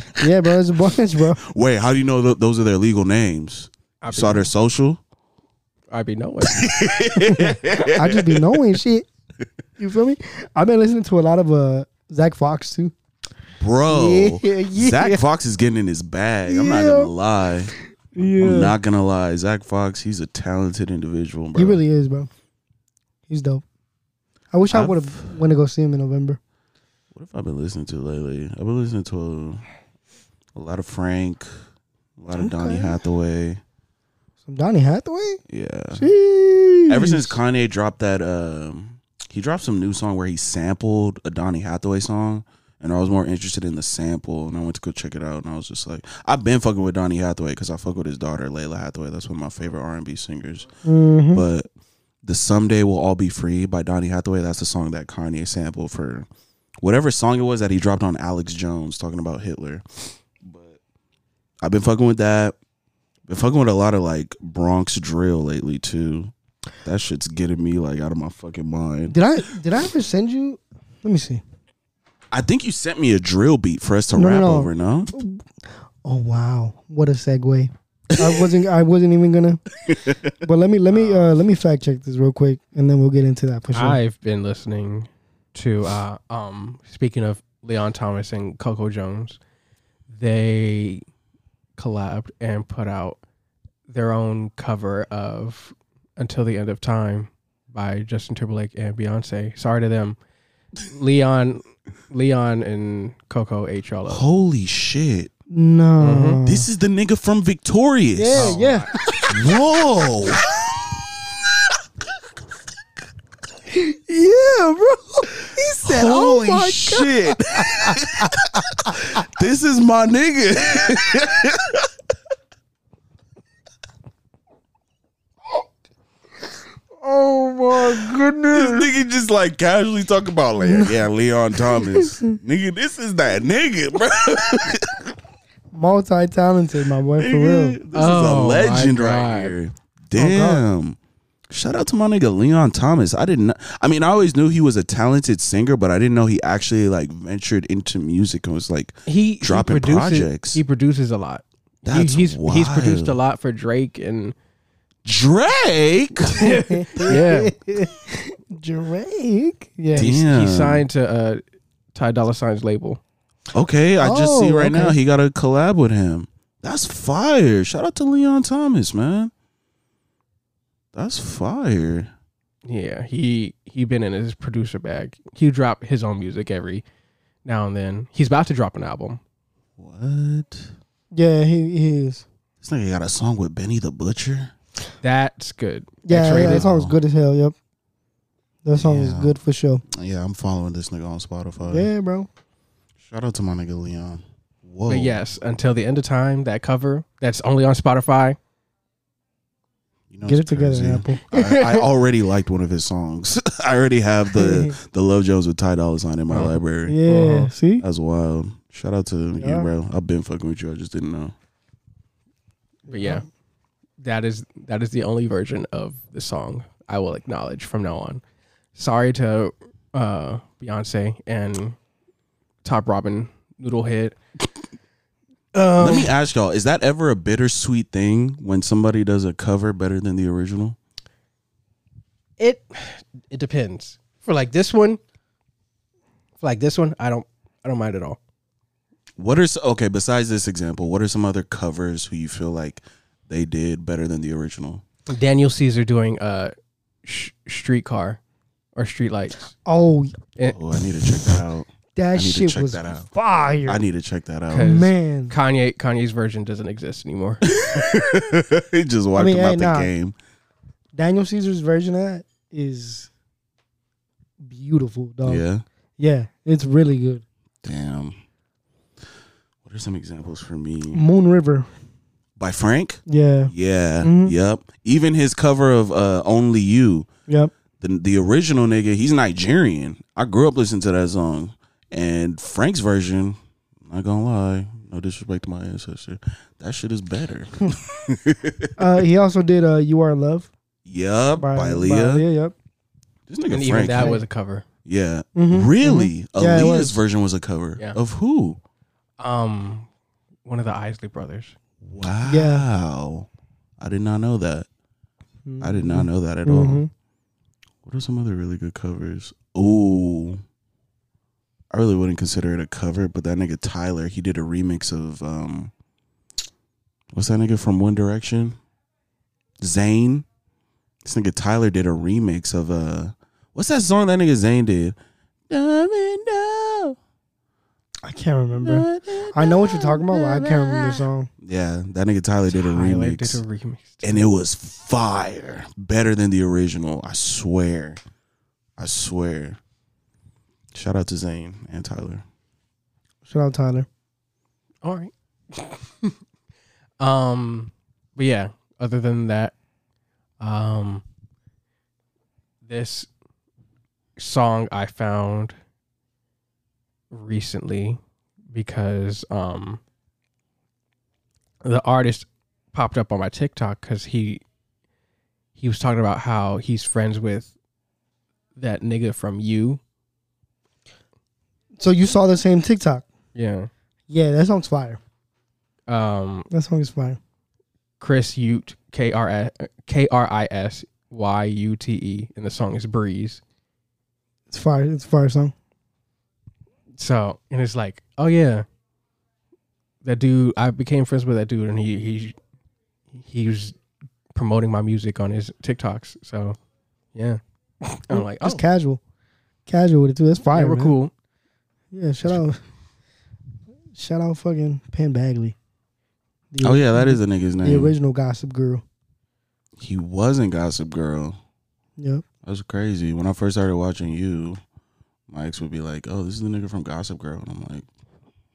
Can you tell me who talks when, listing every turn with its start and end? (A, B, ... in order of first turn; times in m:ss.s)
0:00.2-0:01.4 A
0:01.4-0:05.0 B
0:04.0-0:04.5 C
0:05.9-0:06.7 C
0:06.4-0:08.8 B
0:07.2-0:09.1 A
0:09.8-0:12.9 A
0:13.6-0:21.8 B
0:13.9-0:15.2 A
0:16.5-0:17.1 A
0:18.1-0:18.8 A
0:21.6-0:22.3 A
0:23.3-0:23.6 A
0:24.5-0:26.4 A
0:24.7-0:25.4 B
0:27.1-0:29.6 B
0:30.6-0:31.5 B
0:32.2-0:33.6 B
0:32.3-0:33.0 A
0:34.5-0:35.4 A
0:35.5-0:36.1 B
0:35.9-0:37.4 A
0:36.9-0:50.7 B
0:50.8-0:51.4 A
0:51.3-0:51.7 B
0:52.2-0:56.3 B
0:56.8-1:00.8 B
1:01.6-1:02.6 B
1:03.3-1:06.3 B
1:06.8-1:09.2 B
1:09.1-1:11.4 A
1:12.3-1:15.1 B
1:14.2-1:15.4 A
1:16.0-1:19.6 A
1:18.2-1:18.4 B
1:19.9-1:20.3 B
1:20.3-1:24.0 A
1:20.9-1:21.3 C
1:23.7-1:29.4 C
1:30.1-1:31.0 C
1:31.8-1:33.2 C
1:33.9-1:40.2 C
1:40.8-1:44.3 C
1:44.1-1:45.3 B
1:45.5-1:46.7 A
1:46.0-1:46.4 C
1:46.4-1:48.6 B
1:48.2-1:49.4 A
1:48.3-1:48.9 C
1:49.3-1:50.5 B
1:53.7-1:59.0 A
1:55.8-2:01.9 B
2:07.0-2:08.9 A
2:08.5-2:15.1 B
2:10.6-2:10.9 A
2:11.8-2:12.1 A
2:15.7-2:17.8 A
2:17.2-2:21.0 B
2:17.9-2:19.6 C
2:20.2-2:20.7 A
2:21.5-2:30.6 B
2:29.1-2:34.4 C
2:31.8-2:33.2 B
2:35.0-2:36.6 B
2:36.4-2:37.5 C
2:36.4-2:40.1 A
2:39.9-2:41.4 C
2:39.9-2:40.9 B
2:41.9-2:43.0 C
2:43.5-2:49.3 B
2:44.0-2:45.0 A
2:50.9-2:52.1 B
2:52.6-2:56.8 C
2:57.4-2:59.2 C
2:59.8-3:00.7 B
3:01.1-3:02.2 A
3:02.6-3:04.5 B
3:05.0-3:06.7 C
3:06.0-3:07.6 A
3:06.2-3:07.0 B
3:08.6-3:09.8 A
3:08.8-3:09.4 B
3:09.9-3:11.9 B
3:11.7-3:12.3 A
3:13.0-3:15.2 B
3:14.9-3:18.4 C
3:20.1-3:27.0 B
3:20.2-3:21.2 A
3:21.3-3:21.9 C
3:24.4-3:24.8 A
3:26.3-3:27.5 C
3:26.9-3:27.8 A
3:27.8-3:31.4 B
3:29.4-3:29.7 A
3:32.9-3:33.2 A
3:32.9-3:33.2 C
3:34.0-3:38.2 C
3:38.8-3:41.8 C
3:42.6-3:44.2 C
3:45.6-3:46.1 C
3:45.8-3:50.8 B
3:52.4-3:55.0 C
3:56.4-3:58.2 C
3:59.2-4:04.8 B
4:05.1-4:06.5 C
4:07.0-4:08.2 C
4:08.8-4:09.5 C
4:09.6-4:10.2 A
4:10.5-4:13.1 B
4:12.0-4:13.8 A
4:13.6-4:14.7 B
4:14.5-4:17.4 C
4:14.5-4:15.4 A
4:17.5-4:20.2 B
4:19.2-4:19.9 A
4:21.0-4:23.1 A
4:24.4-4:25.4 A
4:25.2-4:25.6 B
4:26.0-4:27.2 A
4:27.6-4:28.2 B
4:29.6-4:31.0 B
4:30.9-4:31.7 A
4:32.4-4:37.1 B
4:33.1-4:34.4 A
4:37.8-4:48.9 B
4:48.8-4:50.5 A
4:50.8-4:52.3 B
4:51.4-4:52.5 A
4:53.3-4:54.2 B
4:53.5-4:54.6 C
4:54.0-4:54.2 A
4:54.8-4:58.6 B
4:55.4-4:57.0 A
4:59.2-4:59.9 C
5:00.4-5:01.6 C
5:01.8-5:04.7 B
5:02.2-5:02.6 A
5:05.5-5:06.9 A
5:05.6-5:06.8 B
5:07.8-5:10.4 B
5:11.7-5:15.7 B
5:17.1-5:18.6 B
5:19.6-5:20.3 B
5:21.0-5:25.0 B
5:25.5-5:27.0 B
5:28.0-5:31.3 A
5:28.6-5:33.4 B
5:32.5-5:34.2 C
5:34.0-5:38.0 B
5:38.8-5:39.6 B
5:40.7-5:42.2 B
5:43.2-5:43.9 A
5:44.8-5:46.1 C
5:47.0-5:49.6 C
5:50.4-5:51.0 C
5:52.6-5:53.1 C
5:54.2-5:55.6 C
5:57.1-5:58.0 C
5:58.5-5:59.8 C
6:01.6-6:04.4 C
6:05.6-6:07.5 C
6:08.6-6:09.8 C
6:11.8-6:13.1 A
6:13.4-6:13.7 C
6:14.1-6:15.0 A
6:15.9-6:16.5 C
6:16.5-6:17.2 A
6:18.0-6:23.4 C
6:24.5-6:25.5 A
6:27.0-6:28.6 C
6:30.0-6:32.4 C
6:33.2-6:33.8 C
6:34.3-6:36.6 C
6:37.2-6:37.4 C
6:38.1-6:38.6 C
6:38.1-6:39.0 A
6:39.7-6:41.0 A
6:40.5-6:41.1 C
6:41.9-6:42.6 A
6:44.0-6:45.6 A
6:46.5-6:48.8 A
6:46.6-6:48.0 B
6:49.8-6:51.4 B
6:52.0-6:52.2 A
6:52.4-6:54.6 B
6:55.3-6:57.9 B